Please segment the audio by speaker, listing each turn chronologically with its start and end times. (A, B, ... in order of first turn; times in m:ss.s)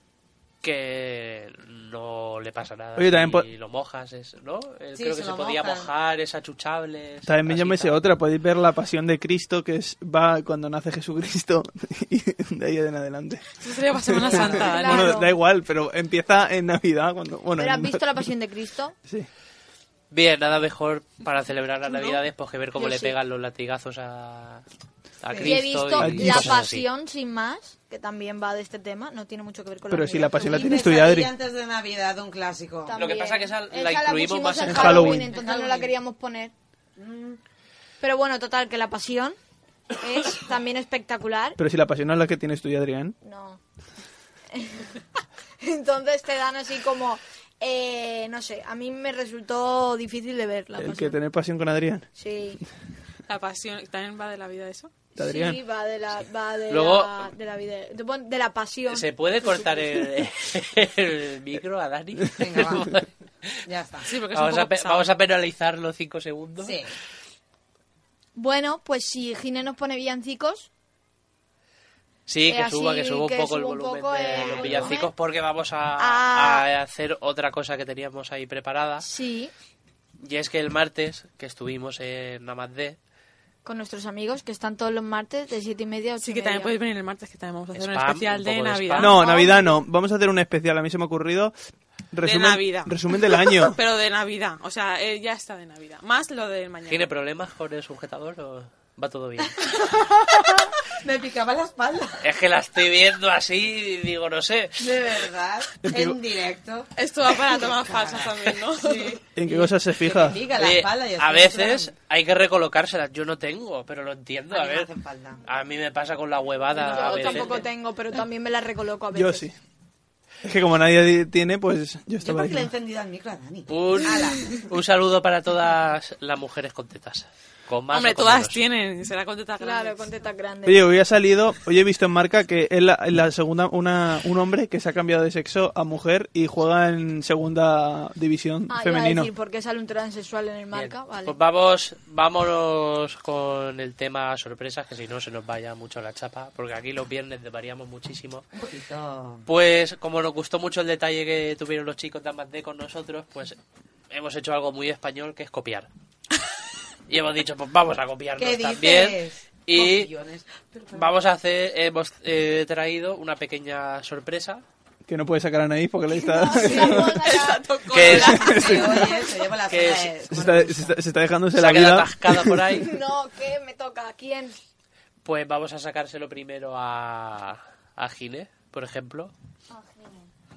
0:00.6-0:08.0 A
0:03.0-0:03.5 B
0:05.0-0:05.9 C
0:07.3-0:18.2 B
0:13.6-0:15.2 D
0:14.3-0:15.4 E
0:17.6-0:19.0 E
0:20.1-0:24.6 A
0:21.9-0:22.2 D
0:22.8-0:23.2 E
0:25.2-0:26.9 A
0:25.3-0:25.8 C
0:25.4-0:30.9 E
0:26.0-0:26.6 B
0:29.9-0:31.3 B
0:30.4-0:33.1 C
0:32.9-0:36.5 E
0:32.9-0:35.2 A
0:34.6-0:35.3 B
0:35.3-0:36.0 C
0:37.0-0:37.4 C
0:38.0-0:39.4 E
0:39.9-0:41.6 E
0:41.6-0:43.2 B
0:43.2-0:43.6 E
0:44.5-0:45.0 E
0:45.6-0:51.2 E
0:50.8-0:52.1 B
0:52.2-0:52.6 E
0:53.3-0:54.9 D
0:55.2-0:55.6 B
0:55.2-0:59.8 E
0:56.7-0:57.3 A
0:58.9-1:03.6 A
1:02.4-1:03.1 C
1:03.7-1:04.1 C
1:04.1-1:05.1 D
1:04.2-1:06.8 A
1:06.6-1:06.9 C
1:08.4-1:10.7 E
1:12.3-1:19.1 A
1:12.5-1:15.1 E
1:14.4-1:15.0 C
1:16.0-1:16.7 E
1:19.0-1:19.5 E
1:20.2-1:23.0 A
1:23.6-1:26.8 E
1:26.2-1:29.4 D
1:27.8-1:29.2 A
1:29.0-1:31.5 B
1:29.3-1:29.6 E
1:32.1-1:33.8 B
1:32.2-1:37.1 D
1:36.9-1:39.6 A
1:39.4-1:42.2 C
1:42.2-1:45.0 A
1:44.8-1:51.9 C
1:45.8-1:46.2 B
1:47.0-1:49.2 D
1:49.4-1:50.4 B
1:50.6-1:54.9 A
1:54.5-1:55.4 C
1:55.4-1:57.6 A
1:56.8-1:57.7 D
1:56.8-1:59.4 E
1:59.2-1:59.6 B
2:00.4-2:02.7 B
2:02.2-2:04.6 C
2:03.7-2:08.6 A
2:07.9-2:10.1 D
2:09.6-2:10.9 E
2:10.6-2:19.3 B
2:18.7-2:21.4 E
2:20.7-2:28.5 A
2:28.5-2:29.5 C
2:29.5-2:33.6 A
2:34.1-2:35.9 A
2:37.1-2:40.1 A
2:38.4-2:41.2 C
2:40.9-2:44.6 A
2:45.1-2:47.2 B
2:46.1-2:47.8 E
2:46.6-2:47.0 C
2:46.9-2:49.1 D
2:47.9-2:48.8 A
2:48.0-2:51.0 C
2:48.1-2:49.3 B
2:49.7-2:50.1 A
2:50.3-2:52.8 B
2:51.5-2:52.9 A
2:52.8-2:54.6 E
2:55.2-2:59.3 A
2:59.7-3:00.3 E